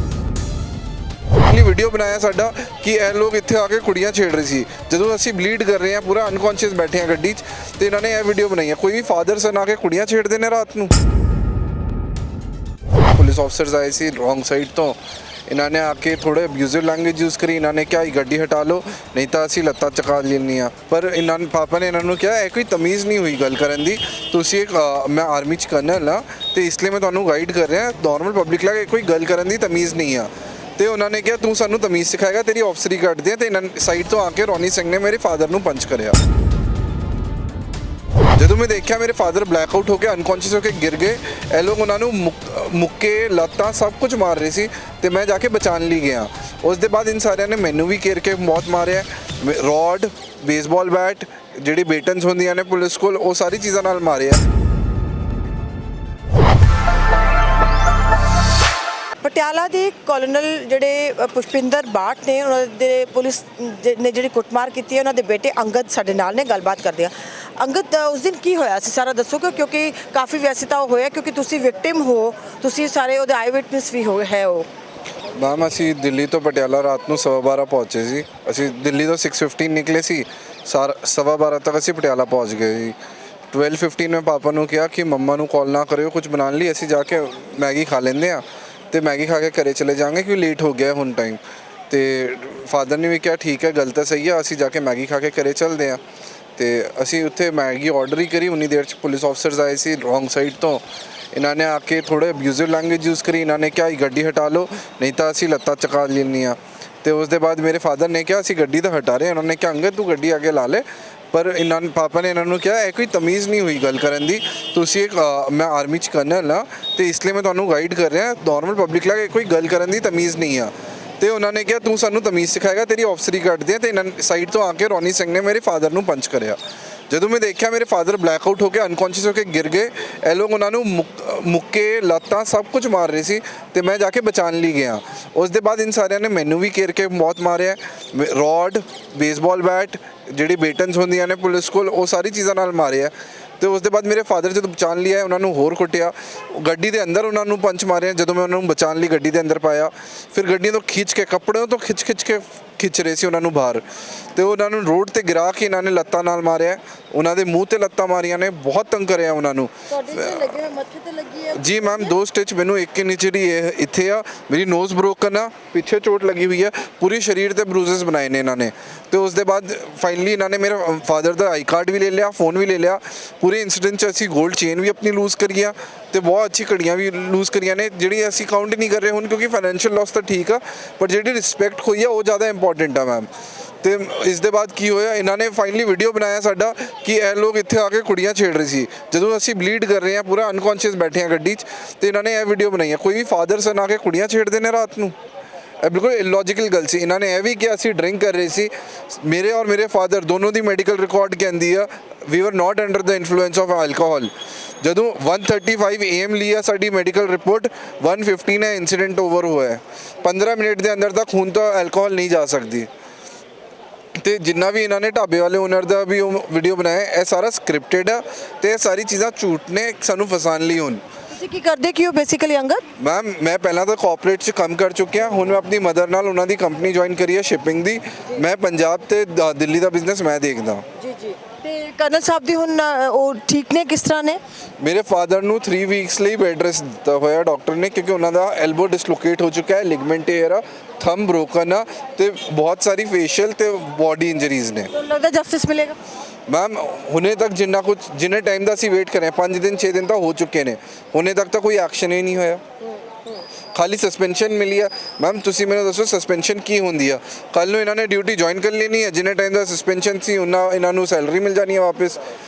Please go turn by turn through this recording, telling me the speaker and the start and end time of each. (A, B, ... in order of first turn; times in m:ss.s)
0:01.4-0:10.9 A
0:13.1-0:15.0 A
0:15.5-0:36.2 A
0:38.4-0:54.4 A
0:59.2-1:14.7 B
1:15.4-1:22.9 A
1:23.5-1:31.4 A
1:31.9-1:36.0 A
1:36.6-1:40.8 A
1:41.3-2:06.6 A
2:07.1-2:33.8 A
2:34.3-2:40.6 A
2:39.9-2:42.1 B
2:41.5-3:03.3 A
3:03.8-3:15.1 A
3:15.8-3:24.3 A
3:24.8-3:32.9 A
3:34.2-3:41.0 A
3:41.3-3:42.8 B
3:43.0-3:50.8 A
3:51.1-3:54.4 B
3:54.8-4:04.9 A
4:04.9-4:06.0 B
4:06.5-4:12.6 A
4:13.7-4:22.2 A